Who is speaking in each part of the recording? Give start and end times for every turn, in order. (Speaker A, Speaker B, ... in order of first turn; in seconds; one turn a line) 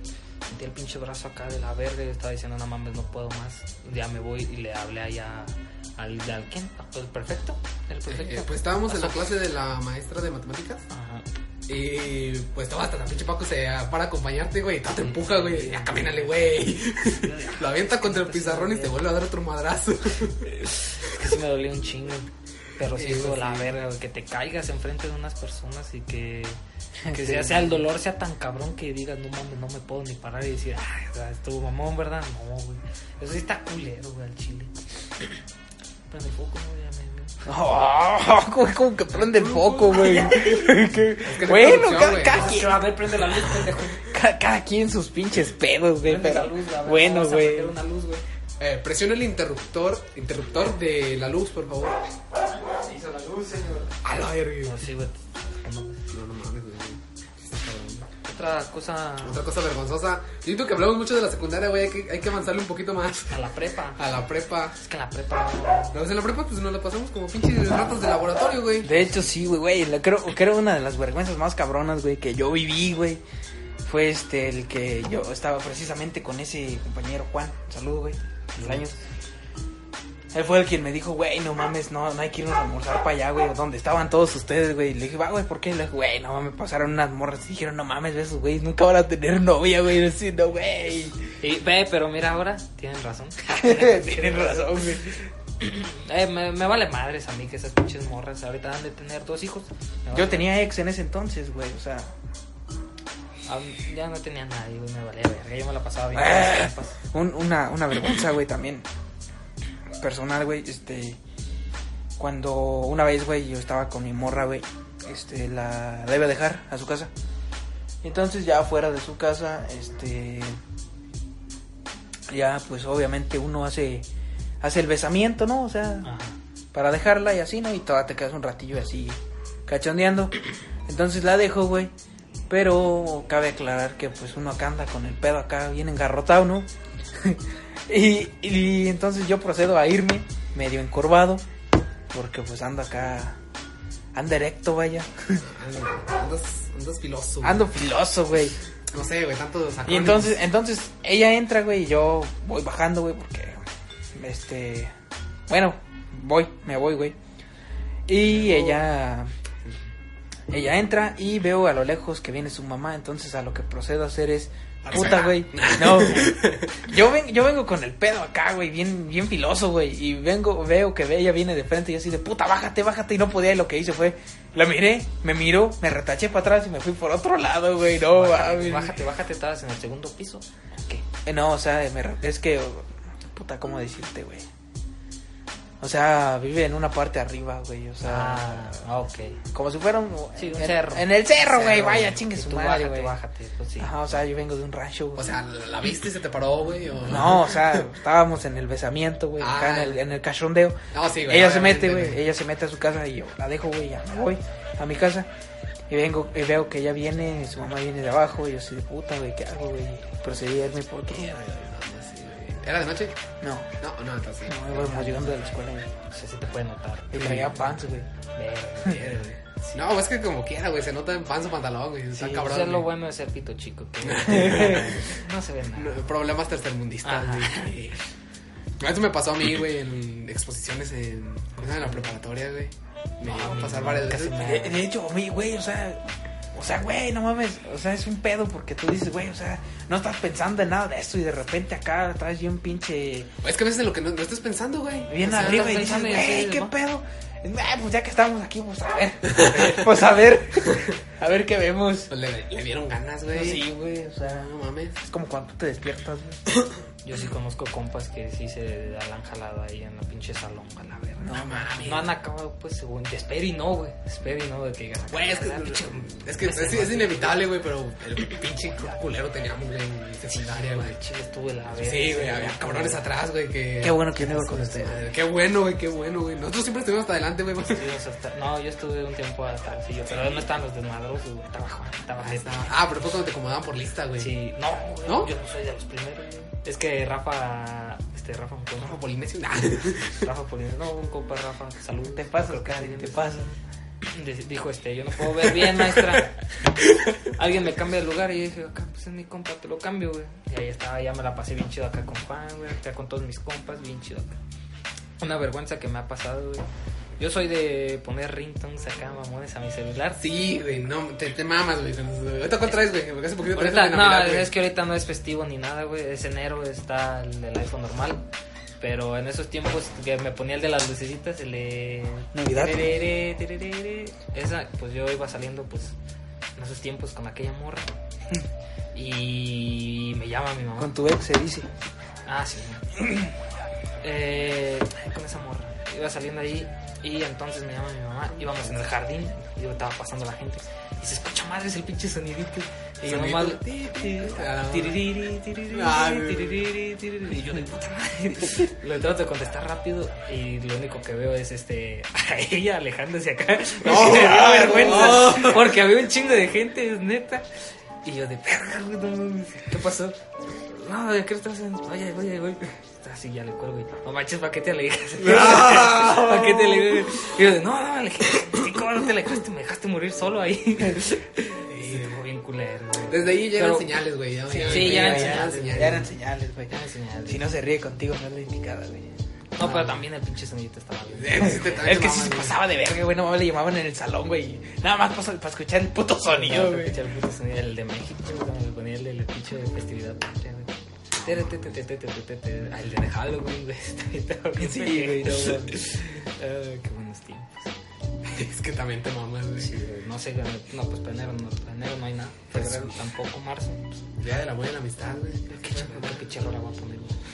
Speaker A: 0.5-9.3
Speaker B: 8.1-10.8
Speaker A: 10.9-11.2
Speaker B: 11.7-20.5
Speaker A: 15.0-16.3
Speaker A: 17.1-19.0
Speaker A: 20.4-26.6
Speaker B: 22.9-23.8
Speaker C: 27.0-27.8
Speaker A: 27.1-34.7
Speaker A: 36.1-37.4
Speaker C: 37.5-42.9
Speaker B: 39.1-42.5
Speaker A: 42.2-44.1
Speaker C: 44.0-47.8
Speaker A: 46.0-48.2
Speaker B: 48.6-52.0
Speaker C: 52.6-53.9
Speaker B: 54.0-54.8
Speaker A: 54.6-56.0
Speaker B: 56.1-58.1
Speaker A: 58.2-59.4
Speaker B: 59.2-63.4
Speaker A: 63.3-64.0
Speaker B: 64.0-64.8
Speaker A: 64.8-66.0
Speaker B: 65.9-68.9
Speaker C: 68.8-73.2
Speaker C: 73.8-79.0
Speaker A: 78.6-78.8
Speaker C: 80.3-91.2
Speaker A: 91.4-94.8
Speaker C: 93.6-95.2
Speaker A: 95.6-100.5
Speaker C: 100.1-102.1
Speaker A: 103.5-107.0
Speaker C: 106.1-108.9
Speaker C: 110.0-111.2
Speaker C: 112.2-117.1
Speaker C: 118.0-120.6
Speaker C: 122.3-124.1
Speaker C: 124.6-126.1
Speaker A: 126.0-126.4
Speaker C: 126.7-130.3
Speaker C: 130.9-131.9
Speaker C: 132.5-141.4
Speaker C: 142.1-143.4
Speaker C: 144.1-145.5
Speaker B: 145.4-147.7
Speaker C: 147.4-148.6
Speaker B: 148.9-150.4
Speaker C: 149.9-153.6
Speaker C: 154.1-154.9
Speaker C: 155.5-157.2
Speaker C: 158.1-159.3
Speaker B: 158.3-158.9
Speaker C: 160.5-179.0
Speaker B: 164.8-166.9
Speaker A: 178.1-181.1
Speaker C: 181.2-184.5
Speaker C: 185.8-188.8
Speaker A: 188.0-189.4
Speaker C: 189.5-193.2
Speaker A: 190.4-194.0
Speaker C: 193.8-195.3
Speaker B: 195.2-197.9
Speaker C: 197.0-205.3
Speaker B: 199.4-200.0
Speaker B: 200.9-202.2
Speaker C: 205.9-211.3
Speaker B: 211.1-213.2
Speaker C: 213.4-213.7
Speaker B: 213.8-215.3
Speaker C: 214.5-215.9
Speaker A: 216.1-217.8
Speaker C: 217.1-218.1
Speaker B: 217.2-217.5
Speaker A: 218.3-219.3
Speaker B: 218.8-222.9
Speaker A: 222.2-226.1
Speaker B: 224.0-225.2
Speaker B: 225.8-228.0
Speaker A: 227.0-227.7
Speaker B: 228.8-234.6
Speaker A: 231.6-232.1
Speaker A: 233.2-234.8
Speaker C: 234.4-236.0
Speaker C: 236.5-243.3
Speaker B: 243.4-245.7
Speaker C: 245.1-252.1
Speaker A: 245.2-246.7
Speaker B: 249.3-249.8
Speaker B: 250.7-250.9
Speaker B: 252.1-253.7
Speaker C: 253.3-256.5
Speaker B: 254.4-255.0
Speaker A: 257.0-267.4
Speaker C: 261.2-261.8
Speaker B: 261.3-262.1
Speaker B: 265.1-271.0
Speaker A: 270.3-273.0
Speaker B: 271.7-277.9
Speaker C: 273.8-275.0
Speaker A: 277.7-282.8
Speaker B: 282.2-284.3
Speaker A: 284.2-289.0
Speaker B: 285.1-285.3
Speaker B: 288.8-290.2
Speaker A: 290.1-293.2
Speaker C: 292.1-293.6
Speaker A: 294.1-296.4
Speaker A: 297.3-304.4
Speaker A: 305.2-306.7
Speaker A: 307.2-310.2
Speaker B: 310.2-314.5
Speaker A: 313.5-318.2
Speaker A: 318.8-325.9
Speaker C: 322.3-323.0
Speaker A: 326.6-328.0
Speaker A: 328.9-330.9
Speaker C: 330.8-331.7
Speaker A: 332.3-332.9
Speaker A: 334.0-357.5
Speaker B: 343.0-346.7
Speaker B: 353.8-355.8
Speaker C: 354.2-355.5
Speaker A: 358.0-373.9
Speaker B: 365.2-367.0
Speaker B: 371.7-372.2
Speaker B: 373.1-376.1
Speaker C: 374.5-376.7
Speaker A: 374.6-376.1
Speaker A: 376.7-377.5
Speaker C: 377.3-379.1
Speaker A: 379.6-382.0
Speaker C: 379.6-380.0
Speaker B: 381.1-382.6
Speaker C: 381.8-387.0
Speaker A: 386.3-397.7
Speaker B: 391.2-391.5
Speaker C: 394.6-395.8
Speaker B: 398.2-399.8
Speaker A: 399.6-403.9
Speaker B: 402.6-402.9
Speaker B: 404.2-406.3
Speaker A: 405.6-407.2